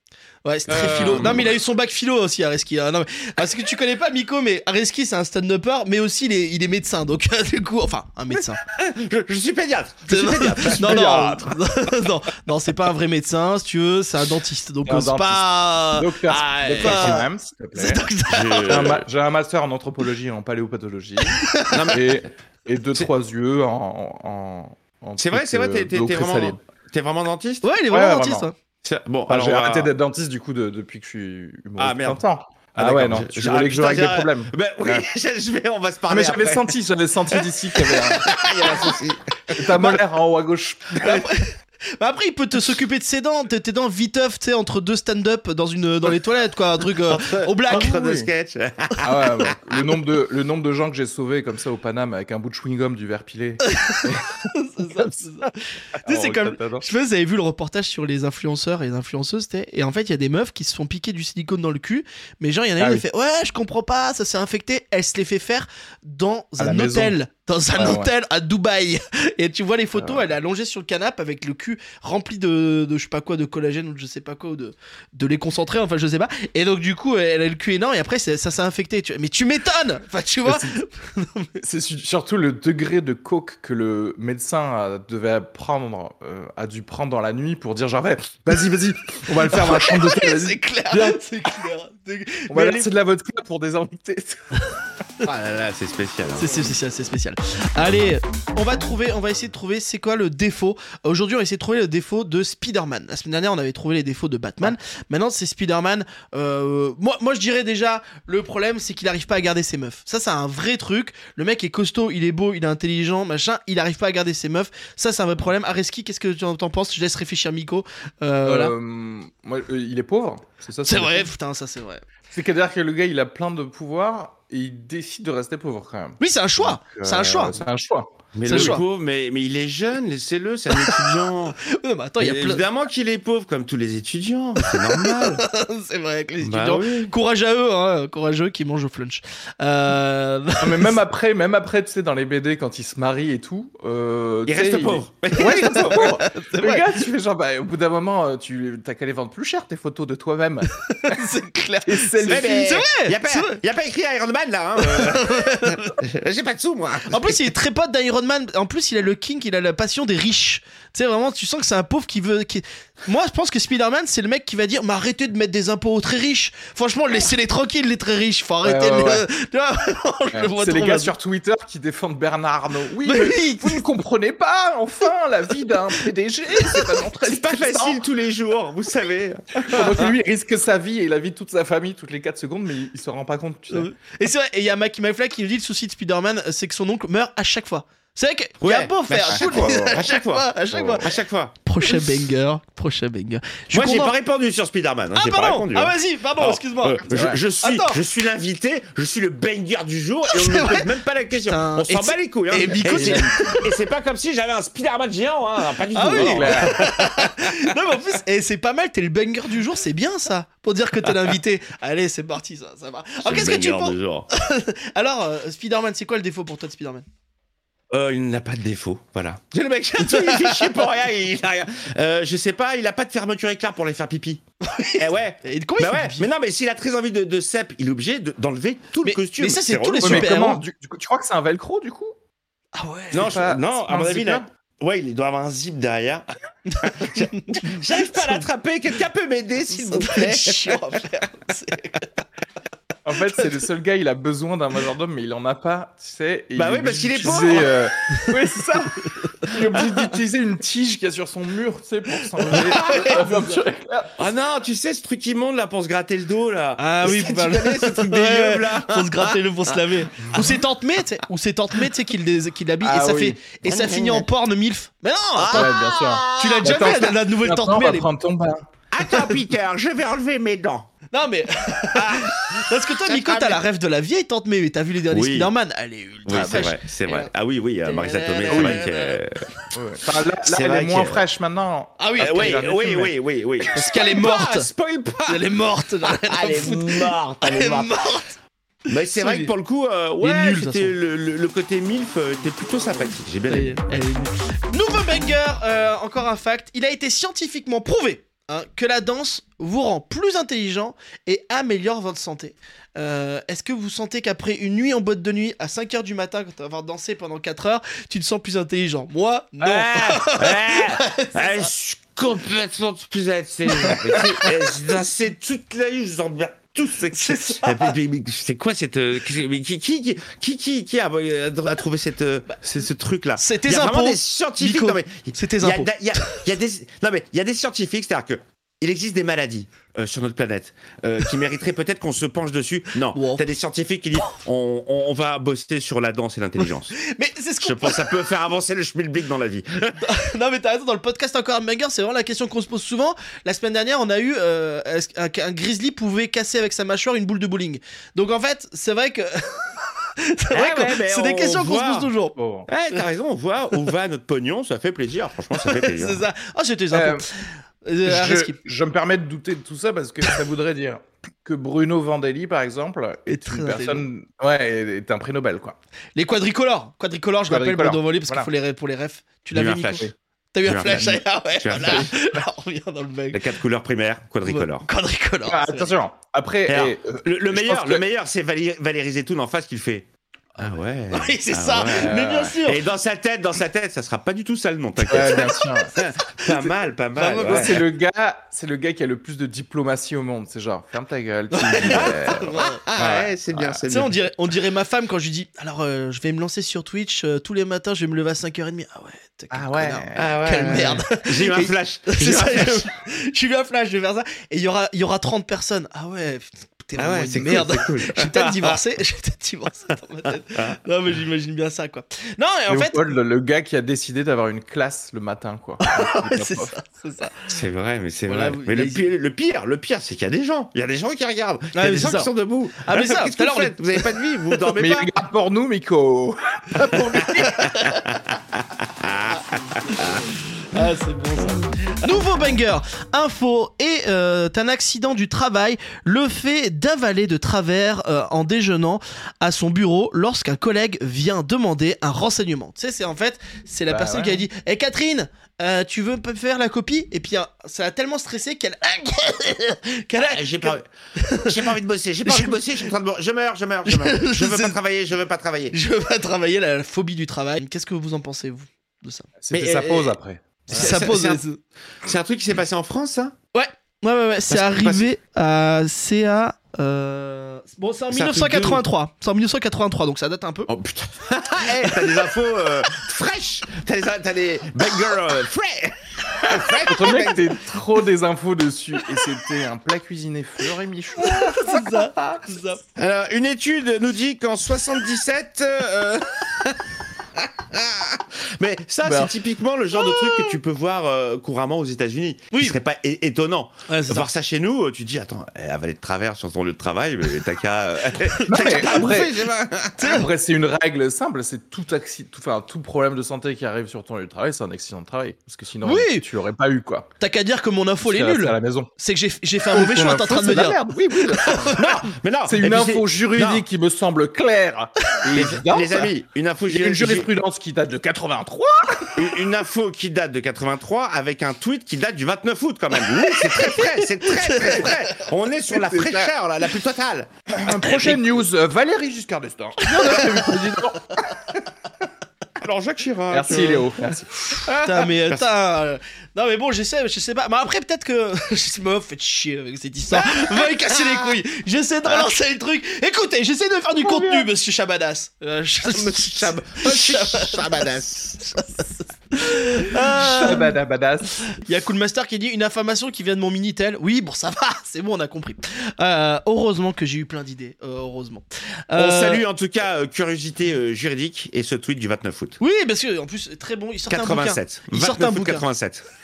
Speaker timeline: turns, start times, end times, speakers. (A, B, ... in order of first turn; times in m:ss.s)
0:00.4-0:08.6 A
0:00.7-0:01.6 B
0:00.7-0:01.5 C
0:08.4-0:11.6 C
0:10.1-0:19.0 A
0:14.8-0:18.0 B
0:16.3-0:17.3 C
0:18.3-0:19.0 C
0:18.7-0:26.6 B
0:21.3-0:22.0 A
0:21.7-0:22.1 C
0:25.2-0:27.6 C
0:27.6-0:28.5 A
0:27.9-0:28.5 B
0:28.8-0:29.9 C
0:29.3-0:35.1 B
0:31.8-0:32.2 C
0:32.8-0:36.8 C
0:36.1-0:38.3 B
0:37.3-0:40.0 C
0:39.5-0:41.3 B
0:41.0-0:48.0 A
0:47.1-0:49.7 C
0:47.7-0:48.3 B
0:49.0-0:54.4 B
0:53.7-1:21.5 A
0:56.1-0:56.9 B
1:02.8-1:03.0 B
1:06.6-1:07.1 B
1:07.8-1:08.1 B
1:09.9-1:10.2 B
1:20.4-1:20.8 B
1:21.6-1:31.2 B
1:29.3-1:32.9 A
1:32.5-1:34.5 B
1:35.2-1:36.7 C
1:36.4-1:58.7 A
1:58.4-2:01.3 B
2:00.9-2:02.0 A
2:02.3-2:08.8 B
2:06.2-2:07.6 A
2:08.4-2:11.6 C
2:08.4-2:08.8 A
2:10.7-2:12.6 A
2:12.2-2:15.5 C
2:14.6-2:20.9 A
2:16.4-2:17.1 C
2:20.6-2:31.4 B
2:24.5-2:26.1 C
2:25.4-2:26.9 A
2:30.8-2:33.6 A
2:31.9-2:32.7 B
2:32.3-2:37.5 C
2:34.8-2:36.0 A
2:37.1-2:51.1 A
2:48.6-2:49.3 B
2:50.3-2:58.0 B
2:53.0-2:53.8 A
2:56.6-2:56.9 A
2:57.2-3:00.1 C
2:59.6-3:03.9 B
3:03.7-3:14.1 A
3:08.6-3:12.2 C
3:09.3-3:10.0 B
3:10.7-3:11.0 B
3:13.7-3:27.8 C
3:15.2-3:17.0 A
3:17.1-3:17.4 B
3:17.6-3:18.0 A
3:20.3-3:23.7 A
3:22.8-3:23.5 B
3:25.9-3:37.0 A
3:26.1-3:26.8 B
3:33.2-3:34.3 C
3:37.9-3:44.4 C
3:40.0-3:40.8 A
3:44.6-3:46.3 A
3:45.0-3:50.3 C
3:49.0-3:50.6 A
3:50.0-3:52.2 B
3:52.8-3:53.4 A
3:53.1-3:56.2 C
3:53.1-3:54.5 B
3:56.7-3:58.4 A
3:56.8-4:01.0 C
3:59.7-4:02.1 A
4:03.0-4:14.2 B
4:06.6-4:07.7 C
4:08.3-4:09.5 A
4:12.5-4:13.6 A
4:12.6-4:13.1 C
4:14.2-4:20.6 C
4:16.8-4:25.8 A
4:22.8-4:23.4 B
4:23.6-4:24.3 C
4:25.4-4:27.2 C
4:25.5-4:28.7 B
4:26.3-4:28.1 A
4:28.9-4:30.9 C
4:31.1-4:37.3 A
4:31.9-4:33.6 C
4:35.1-4:35.5 C
4:36.3-4:39.4 C
4:36.3-4:36.7 B
4:37.8-4:39.7 A
4:38.5-4:38.8 B
4:39.7-4:43.1 B
4:40.4-4:41.2 C
4:42.0-4:42.8 A
4:42.2-4:48.0 C
4:43.6-4:44.7 A
4:45.3-4:48.4 A
4:48.9-4:49.5 A
4:48.9-4:54.1 C
4:50.2-4:50.9 A
4:53.5-5:11.7 A
5:09.6-5:37.0 C
5:13.7-5:14.8 A
5:17.1-5:18.0 A
5:23.4-5:26.4 A
5:33.2-5:33.4 A
5:36.6-5:38.2 A
5:37.6-5:40.0 C
5:40.0-5:52.4 A
5:50.5-5:52.1 C
5:52.4-5:52.7 B
5:52.7-5:56.2 C
5:55.6-5:58.6 A
5:56.9-5:57.2 B
5:58.0-6:05.8 B
6:03.3-6:04.1 A
6:06.2-6:13.5 A
6:07.5-6:08.5 B
6:09.5-6:10.0 C
6:10.6-6:12.1 C
6:10.9-6:11.2 B
6:11.7-6:12.4 B
6:13.3-6:14.9 C
6:14.4-6:15.9 A
6:15.5-6:18.0 B
6:16.7-6:20.1 C
6:20.6-6:27.8 C
6:21.1-6:22.8 A
6:21.9-6:22.6 B
6:25.1-6:25.9 B
6:25.1-6:27.8 A
6:27.4-6:33.3 B
6:31.5-6:32.8 A
6:31.9-6:34.2 C
6:33.8-6:53.1 A
6:39.5-6:40.3 B
6:40.2-6:42.9 C
6:47.0-6:48.8 C
6:50.3-6:50.8 C
6:52.7-6:56.7 B
6:55.8-6:57.5 A
6:57.5-7:05.1 C
6:58.3-6:59.0 A
7:01.8-7:04.1 A
7:04.8-7:07.7 B
7:07.3-7:08.1 A
7:07.4-7:10.2 C
7:09.9-7:31.8 A
7:23.9-7:24.4 B
7:30.2-7:30.8 C
7:31.4-7:35.8 C
7:32.3-7:32.8 A
7:33.9-7:34.8 A
7:35.7-7:39.3 A
7:39.4-7:41.0 B
7:39.5-7:40.2 C
7:40.7-7:41.4 C
7:40.7-7:41.6 A
7:42.0-7:43.4 C
7:43.5-7:50.7 A
7:44.5-7:45.1 C
7:48.1-7:48.8 C
7:50.7-7:57.5 C
7:51.8-7:52.1 A
7:56.8-8:01.8 B
8:01.2-8:02.8 A
8:03.0-8:20.2 C
8:09.0-8:09.3 B
8:10.1-8:10.6 A
8:13.9-8:14.3 A
8:18.3-8:19.1 A
8:18.5-8:19.3 B
8:20.0-8:20.3 A
8:20.0-8:27.1 B
8:25.8-8:26.2 A
8:27.2-8:32.0 A
8:28.0-8:28.9 B
8:29.7-8:31.8 B
8:31.8-8:33.6 C
8:32.4-8:36.1 B
8:35.3-8:37.3 C
8:36.7-8:39.2 B
8:39.2-8:48.2 C
8:43.0-8:45.2 A
8:45.7-8:46.3 B
8:47.5-8:51.6 B
8:49.8-8:50.6 A
8:52.6-8:55.4 C
8:53.3-8:54.6 B
8:54.8-9:10.8 A
9:00.1-9:01.4 C
9:04.0-9:04.5 C
9:05.8-9:08.6 C
9:09.9-9:11.4 B
9:11.5-9:19.4 A
9:19.0-9:22.6 C
9:22.6-9:25.6 A
9:24.1-9:26.1 C